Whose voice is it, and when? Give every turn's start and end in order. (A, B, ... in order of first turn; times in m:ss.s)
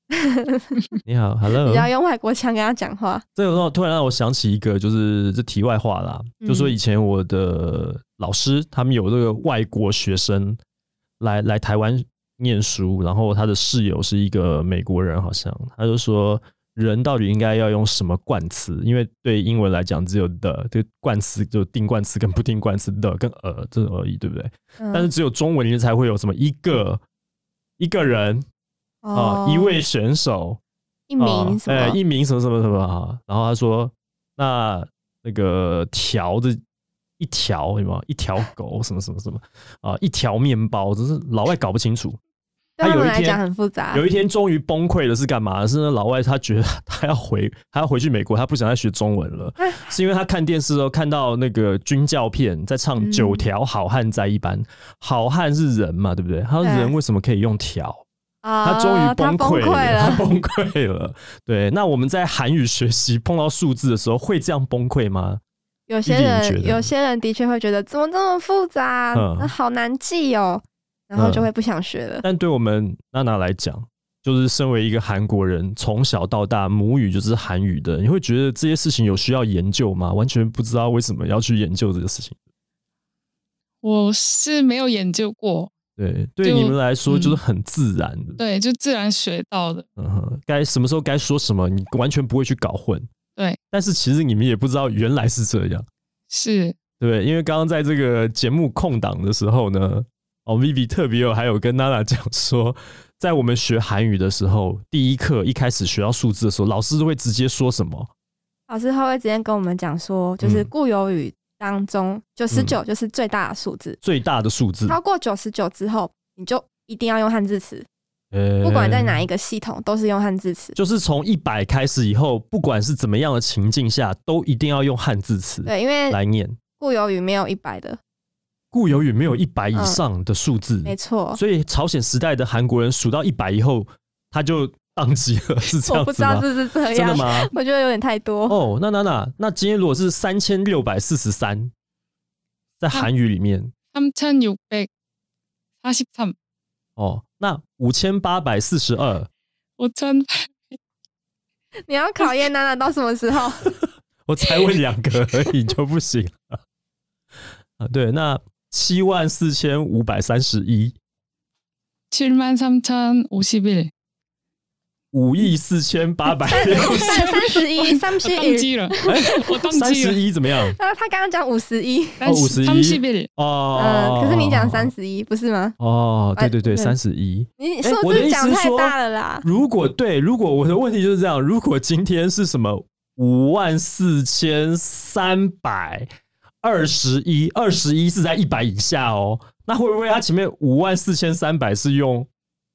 0:00.1-0:00.8 A
0:01.0-0:01.9 B
0:01.6-0:03.2 A
0:03.4-0:10.6 B
0:06.4-0:06.8 A
0:11.2-0:27.0 B
0:24.8-0:25.1 A
0:27.8-0:28.4 B
0:29.0-0:29.8 A
0:29.1-0:30.6 B
0:31.1-0:32.0 A
0:31.2-0:36.6 B
0:37.2-0:42.2 B
0:42.8-0:44.0 A
0:42.8-0:58.0 B
0:49.6-0:49.9 A
0:53.0-0:53.4 A
0:56.6-0:56.9 A
0:58.4-1:00.2 A
0:58.6-1:05.4 B
1:05.9-1:12.2 A
1:06.0-1:06.9 B
1:09.1-1:09.5 B
1:11.2-1:11.5 B
1:12.2-1:22.4 B
1:23.8-1:25.7 C
1:26.0-1:28.4 B
1:26.4-1:27.4 C
1:28.4-1:29.8 C
1:30.0-1:33.1 B
1:33.7-1:35.9 B
1:36.3-1:36.8 C
1:37.0-1:48.1 B
1:48.7-1:54.0 A
1:50.4-1:50.7 B
1:52.5-1:52.8 B
1:54.0-1:55.0 B
1:54.9-1:57.9 A
1:58.3-1:59.2 B
1:58.6-2:00.8 A
2:00.8-2:06.6 B
2:05.6-2:06.2 A
2:06.8-2:08.0 A
2:08.7-2:17.5 B
2:09.7-2:10.0 A
2:10.8-2:11.4 A
2:15.8-2:18.6 A
2:18.5-2:21.7 B
2:22.8-2:23.7 B
2:23.9-2:24.9 C
2:25.8-2:26.4 C
2:27.0-2:29.3 B
2:29.8-2:30.7 C
2:31.9-2:33.7 A
2:34.3-2:36.6 B
2:37.8-2:41.0 B
2:42.1-2:43.9 C
2:45.1-2:47.4 B
2:46.5-2:49.5 A
2:46.9-2:50.2 C
2:49.1-2:50.8 B
2:50.7-2:52.2 A
2:52.2-2:53.3 C
2:52.2-2:54.9 B
2:53.8-2:55.8 A
2:55.8-3:06.1 B
2:56.4-2:57.0 A
2:57.6-2:59.5 A
3:06.6-3:12.3 B